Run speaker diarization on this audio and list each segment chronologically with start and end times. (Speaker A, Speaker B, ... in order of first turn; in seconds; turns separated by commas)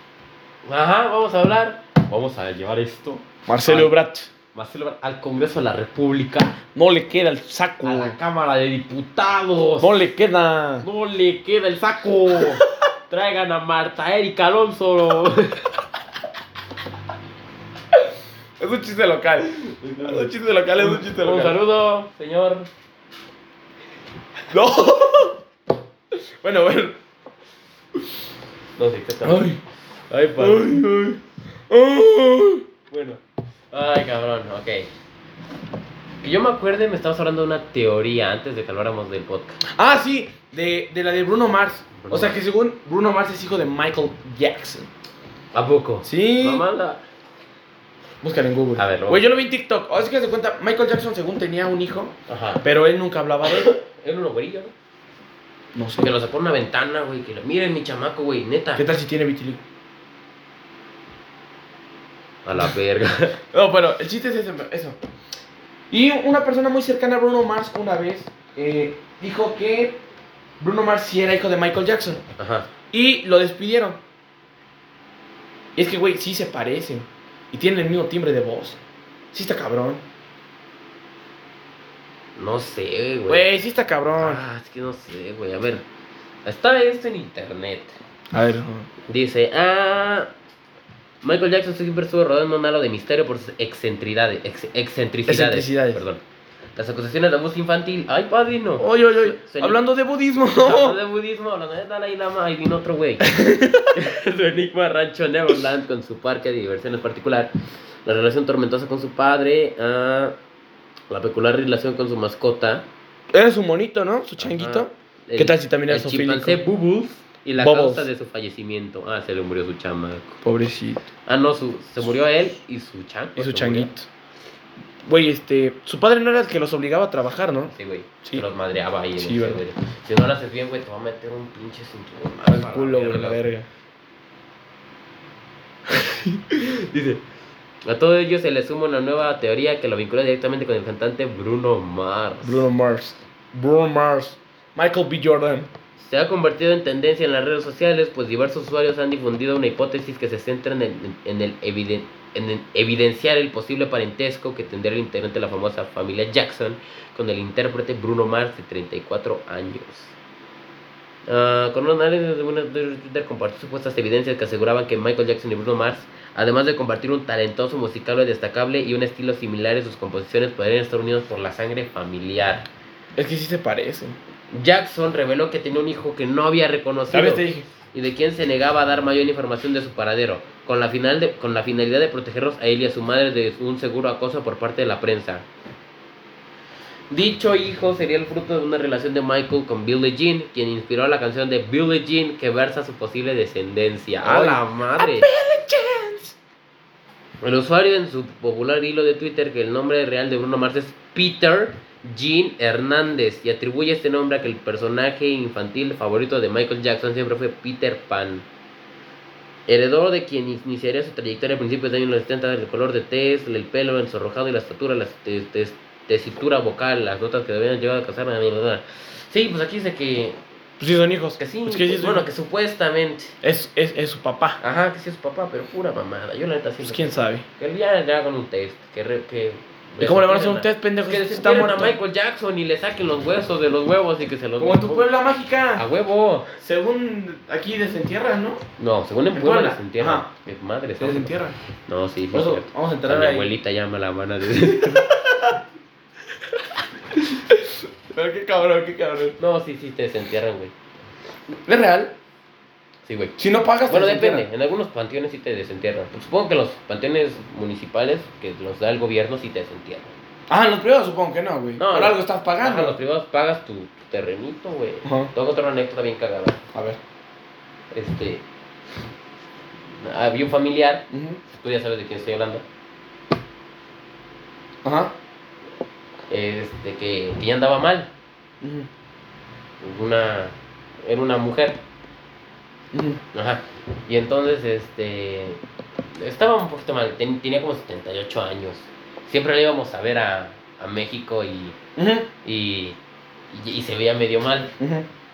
Speaker A: 0.6-4.0, Speaker B: 3.5-4.3, Speaker A: 4.5-6.6, Speaker B: 6.7-8.2, Speaker A: 7.8-10.0, Speaker B: 9.8-10.9, Speaker A: 10.8-15.7, Speaker B: 12.3-12.6, Speaker B: 18.6-21.6, Speaker A: 19.8-22.7, Speaker B: 24.5-25.4, Speaker B: 26.1-27.0, Speaker A: 28.8-29.5, Speaker B: 29.2-29.6, Speaker A: 30.1-30.7, Speaker B: 30.4-32.6, Speaker A: 32.9-34.9, Speaker A: 36.2-39.6, Speaker B: 39.7-44.9, Speaker A: 42.0-42.4, Speaker A: 45.5-47.0, Speaker B: 46.0-46.7, Speaker B: 48.2-53.7, Speaker A: 48.8-49.3, Speaker A: 52.3-52.6, Speaker A: 53.5-54.7, Speaker B: 55.7-56.1, Speaker A: 56.0-58.9, Speaker B: 58.8-59.6, Speaker A: 62.5-63.4, Speaker B: 63.5-65.0, Speaker B: 65.9-70.0, Speaker B: 70.6-72.2, Speaker A: 72.4-72.7, Speaker B: 72.9-74.0, Speaker B: 75.8-78.8, Speaker B: 79.3-80.0, Speaker A: 82.4-83.5, Speaker B: 83.3-84.4, Speaker A: 84.1-85.8, Speaker A: 86.5-88.0, Speaker B: 88.3-88.9, Speaker A: 89.1-90.3, Speaker A: 91.2-96.2, Speaker B: 95.3-96.0, Speaker A: 96.8-99.8, Speaker B: 98.8-101.0, Speaker A: 100.6-103.4, Speaker B: 103.2-103.9, Speaker A: 103.9-107.5, Speaker A: 108.0-110.4, Speaker A: 111.1-112.9, Speaker B: 113.3-116.6, Speaker A: 114.4-120.4, Speaker B: 117.6-118.1, Speaker B: 120.4-121.1, Speaker A: 121.3-123.9, Speaker B: 123.4-124.1, Speaker B: 125.0-127.7, Speaker A: 127.7-133.4, Speaker B: 129.2-129.6, Speaker B: 132.4-133.7, Speaker B: 135.9-137.0, Speaker A: 136.6-137.2, Speaker A: 137.8-142.7, Speaker B: 142.4-145.7, Speaker A: 146.0-160.1, Speaker A: 161.3-172.7, Speaker B: 173.2-174.2, Speaker A: 174.5-185.4, Speaker B: 177.1-177.7, Speaker A: 187.1-195.3, Speaker B: 194.2-196.3, Speaker A: 197.4-208.4, Speaker A: 209.7-220.4, Speaker B: 220.8-222.3, Speaker A: 221.4-223.3, Speaker B: 223.4-224.6, Speaker A: 224.6-235.1, Speaker B: 226.8-227.4, Speaker B: 230.0-232.0, Speaker B: 234.6-235.8, Speaker A: 235.7-236.6, Speaker B: 236.6-238.6, Speaker A: 238.8-241.3, Speaker B: 239.3-240.3, Speaker B: 241.0-241.6, Speaker A: 241.9-245.1, Speaker B: 242.3-243.5, Speaker B: 244.8-245.6, Speaker B: 247.1-249.4, Speaker A: 249.4-250.7, Speaker B: 251.7-252.1, Speaker A: 253.1-260.1, Speaker B: 253.4-254.5, Speaker B: 260.5-262.9, Speaker A: 261.8-266.6, Speaker B: 265.0-265.3, Speaker B: 266.7-267.0, Speaker A: 267.9-268.4, Speaker A: 270.0-272.6, Speaker B: 271.1-271.4, Speaker B: 274.8-275.1, Speaker A: 276.3-278.1, Speaker B: 278.6-278.9, Speaker A: 279.8-281.8, Speaker B: 282.9-283.2, Speaker A: 283.3-285.6, Speaker A: 286.1-291.8, Speaker B: 291.9-292.3, Speaker A: 292.4-293.0, Speaker A: 293.5-294.7, Speaker B: 294.8-295.1